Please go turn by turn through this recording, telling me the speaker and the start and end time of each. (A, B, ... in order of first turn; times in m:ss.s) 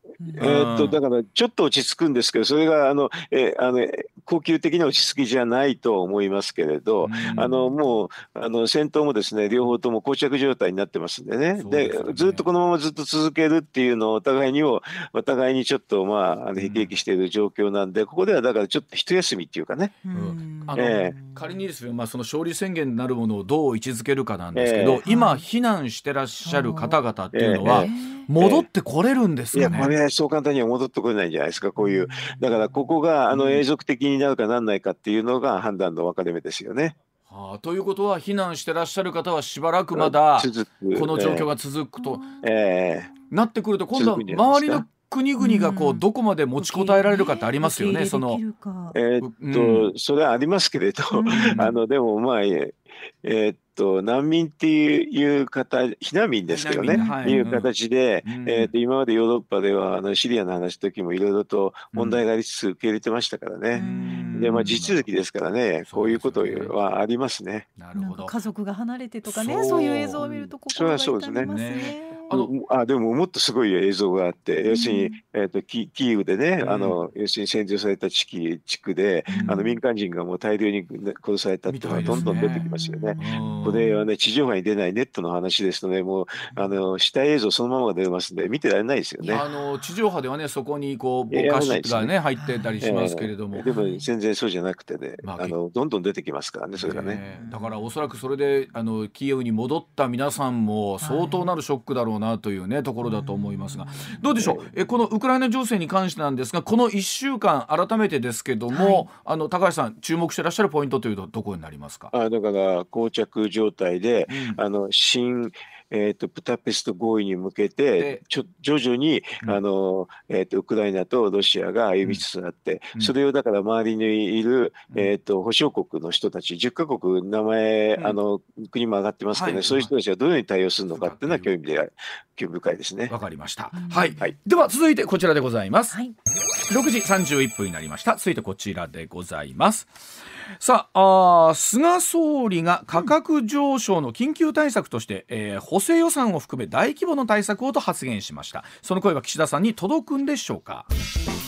0:00.2-0:00.6 A
0:00.3-0:20.0 B
0:00.4-0:01.0 C
0:07.0-0:07.6 C
0:07.4-0:07.7 A
0:11.6-0:12.5 C
0:16.6-0:17.0 C
0:20.0-0:21.6 A
0:20.1-0:29.9 C
0:20.7-0:21.1 B
0:24.5-0:25.0 B
0:25.0-0:25.4 A
0:26.4-0:27.0 A
0:27.3-0:28.7 B
0:27.7-0:28.2 A
0:29.5-0:37.0 B
0:29.6-0:29.9 A
0:31.8-0:32.6 A
0:33.3-0:33.6 C
0:37.3-0:42.2 C
0:39.9-0:41.5 B
0:42.0-0:42.5 A
0:42.4-0:43.1 B
0:43.3-0:48.4 C
0:43.9-0:44.8 B
0:45.4-0:46.0 A
0:46.6-0:49.0 A
0:48.9-1:07.7 B
0:49.2-0:49.9 C
0:51.1-0:51.6 A
0:51.3-0:51.8 C
0:56.5-0:57.7 C
0:56.9-0:57.5 A
0:58.2-0:58.7 C
1:01.9-1:02.2 C
1:03.7-1:04.7 A
1:03.7-1:05.1 C
1:05.8-1:06.8 C
1:07.8-1:08.3 C
1:07.9-1:12.4 A
1:09.2-1:10.5 C
1:10.7-1:11.5 B
1:11.4-1:12.5 C
1:12.3-1:29.4 B
1:14.6-1:15.2 A
1:16.6-1:17.0 C
1:19.3-1:19.8 A
1:19.3-1:19.6 C
1:21.7-1:22.6 C
1:22.1-1:24.1 A
1:23.2-1:23.8 C
1:29.2-1:29.7 A
1:29.3-1:33.7 C
1:31.3-1:32.1 B
1:32.4-1:32.9 A
1:32.8-1:37.2 B
1:33.6-1:34.1 A
1:35.2-1:35.6 C
1:36.8-1:52.1 C
1:37.1-1:37.9 A
1:41.0-1:41.5 A
1:43.0-1:44.3 A
1:44.4-1:44.7 B
1:48.7-1:49.1 A
1:52.1-2:13.1 B
1:54.3-1:54.6 C
2:09.3-2:09.9 C
2:10.9-2:11.5 C
2:13.1-2:16.0 C
2:13.7-2:14.2 A
2:16.7-2:20.0 C
2:20.5-2:30.9 C